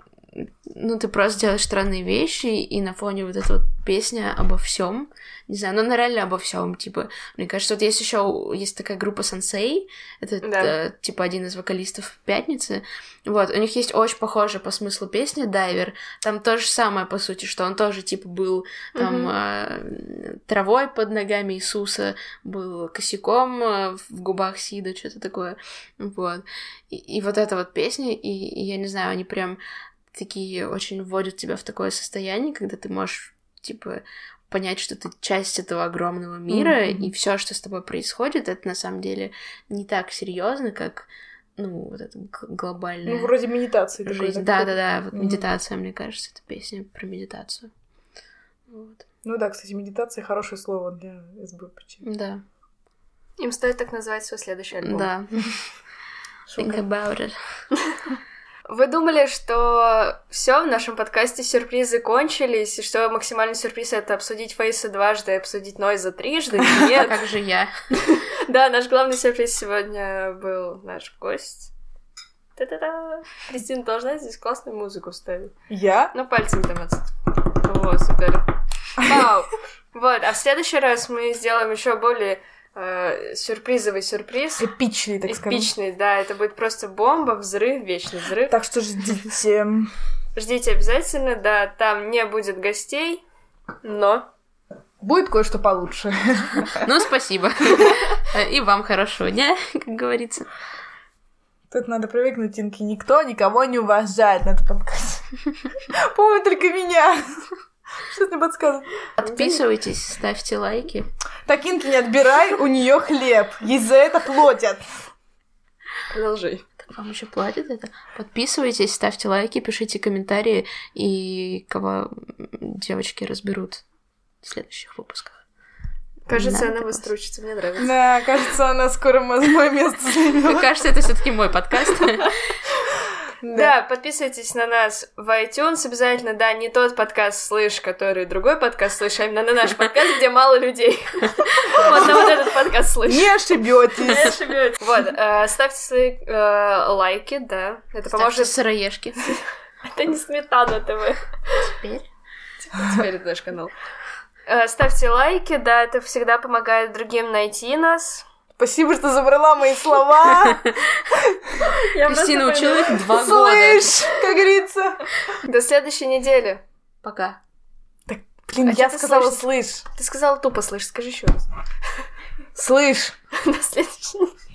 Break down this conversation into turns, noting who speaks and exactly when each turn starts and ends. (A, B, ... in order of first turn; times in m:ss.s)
0:00.4-0:29.6 A
0:10.4-0:10.7 B
0:19.0-0:19.3 B
0:30.1-0:43.3 A
0:36.5-0:37.1 C
0:43.0-0:45.4 C
0:44.1-0:47.7 A
0:48.7-0:49.0 A
0:49.2-0:52.0 C
0:52.0-0:52.4 A
0:53.4-0:55.1 B
0:54.8-0:55.7 A
0:56.5-0:56.8 C
0:56.6-0:57.4 A
0:58.7-1:07.2 B
1:06.9-1:07.7 A
1:08.0-1:11.7 B
1:12.6-1:15.5 B
1:15.7-1:16.1 C
1:16.1-1:18.4 B
1:19.0-1:24.7 B
1:24.6-1:25.7 C
1:25.3-1:28.6 B
1:28.5-1:29.9 C
1:30.3-1:33.2 B
1:33.8-1:34.3 B
1:35.0-1:36.9 C
1:36.8-1:40.4 A
1:41.7-1:47.5 C
1:48.1-1:48.9 C
1:49.2-1:51.1 A
1:49.2-1:49.6 B
1:51.4-1:54.8 C
1:56.1-1:56.6 B
1:56.9-2:03.8 A
2:04.4-2:05.4 A
2:06.3-2:07.9 B
2:06.3-2:07.0 A
2:07.8-2:10.6 C
2:10.4-2:12.3 A
2:13.4-2:13.7 C
2:13.5-2:23.3 B
2:23.0-2:24.4 C
2:24.0-2:28.6 B
2:28.1-2:29.2 A
2:29.2-2:31.7 B
2:31.6-2:32.0 A
2:32.6-2:33.7 B
2:34.5-2:38.2 B
2:38.6-2:40.6 C
2:41.8-2:43.2 B
2:42.0-2:43.9 A
2:43.1-2:45.0 C
2:45.4-2:46.6 B
2:47.0-2:47.4 A
2:48.1-2:49.8 C
2:48.6-2:49.4 B
2:49.9-2:51.5 B
2:52.6-2:53.2 C
2:53.3-2:54.3 B